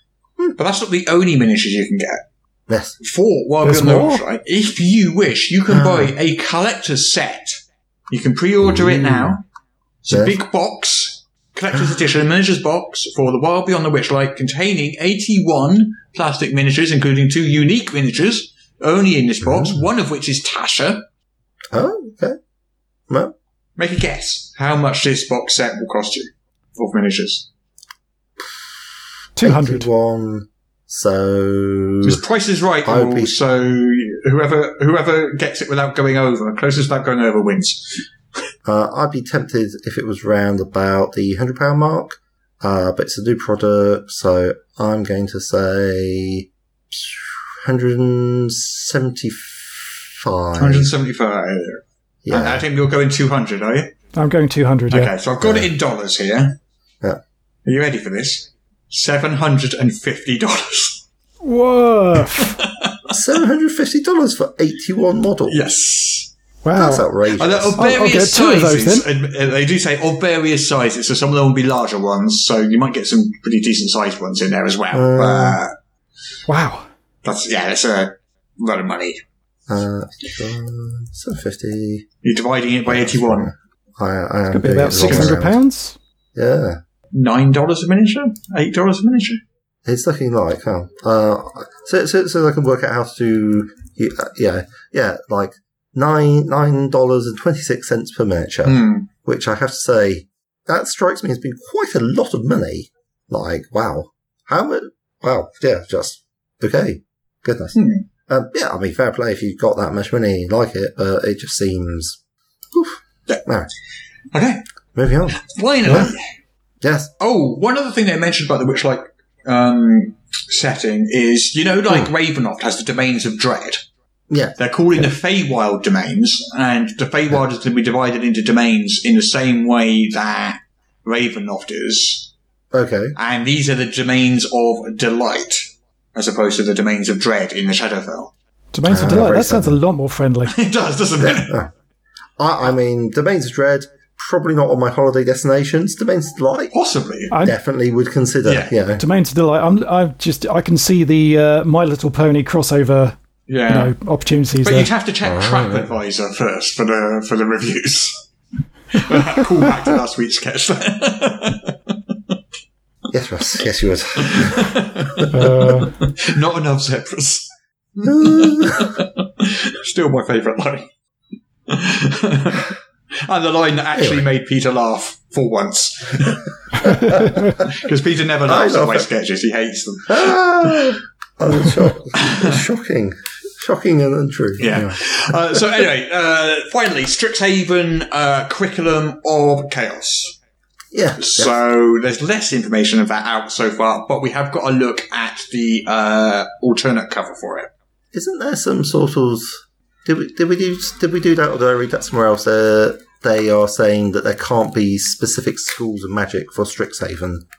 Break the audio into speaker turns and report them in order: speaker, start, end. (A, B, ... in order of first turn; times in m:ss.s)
0:00.6-0:02.2 A
0:02.7-0:03.0 B
0:03.0-0:09.4 A
0:03.6-0:04.2 C
0:05.7-0:06.1 B
0:08.6-0:09.4 B
0:10.0-0:21.0 A
0:10.1-0:10.4 B
0:19.4-0:19.8 B
0:21.7-0:22.4 B
0:23.1-0:23.3 B
0:23.8-0:27.5 A
0:29.4-0:29.9 C
0:29.4-0:32.2 B
0:32.0-0:38.0 A
0:32.8-0:33.4 B
0:38.6-0:50.9 B
0:50.6-0:53.9 A
0:52.2-0:52.6 B
0:54.1-0:55.1 C
0:54.9-0:56.5 A
0:55.4-0:55.7 B
0:57.6-1:01.0 A
1:01.4-1:02.6 C
1:02.4-1:03.1 A
1:03.1-1:05.6 B
1:05.5-1:06.3 A
1:06.6-1:07.1 C
1:06.7-1:07.8 B
1:07.3-1:15.7 A
1:07.8-1:09.0 C
1:14.9-1:15.6 B
1:16.5-1:16.8 C
1:17.2-1:19.2 A
1:19.7-1:22.0 B
1:22.2-1:23.5 A
1:22.8-1:25.6 B
1:24.5-1:26.0 C
1:25.0-1:25.3 A
1:26.3-1:26.8 B
1:27.1-1:29.4 A
1:29.8-1:52.2 B
1:38.6-1:39.1 A
1:47.7-1:48.0 A
1:52.7-1:53.7 B
1:54.3-1:54.6 A
1:54.9-1:56.1 B
1:55.4-1:56.2 A
1:56.8-1:57.1 B
1:57.2-2:03.8 A
2:04.3-2:04.5 B
2:04.6-2:12.3 A
2:12.7-2:13.1 B
2:13.1-2:18.3 A
2:18.7-2:20.5 C
2:18.8-2:19.8 B
2:20.5-2:21.5 A
2:21.2-2:21.7 B
2:22.4-2:26.7 B
2:26.7-2:27.3 A
2:27.3-2:27.6 C
2:27.4-2:29.0 B
2:28.4-2:28.7 A
2:29.0-2:33.2 C
2:33.5-2:33.9 A
2:33.7-2:34.9 C
2:34.6-2:38.2 A
2:35.2-2:35.9 B
2:38.9-2:41.9 A
2:43.1-2:45.3 B
2:44.2-2:50.9 A
2:45.3-2:45.9 C
2:48.0-2:48.9 B
2:51.7-3:00.9 A
2:53.9-2:54.2 B
2:56.8-2:57.6 B
2:58.4-2:59.1 B
3:00.1-3:05.0 B
3:02.2-3:02.6 A
3:04.6-3:10.3 A
3:10.9-3:11.5 B
3:11.2-3:17.7 A
3:18.1-3:27.4 B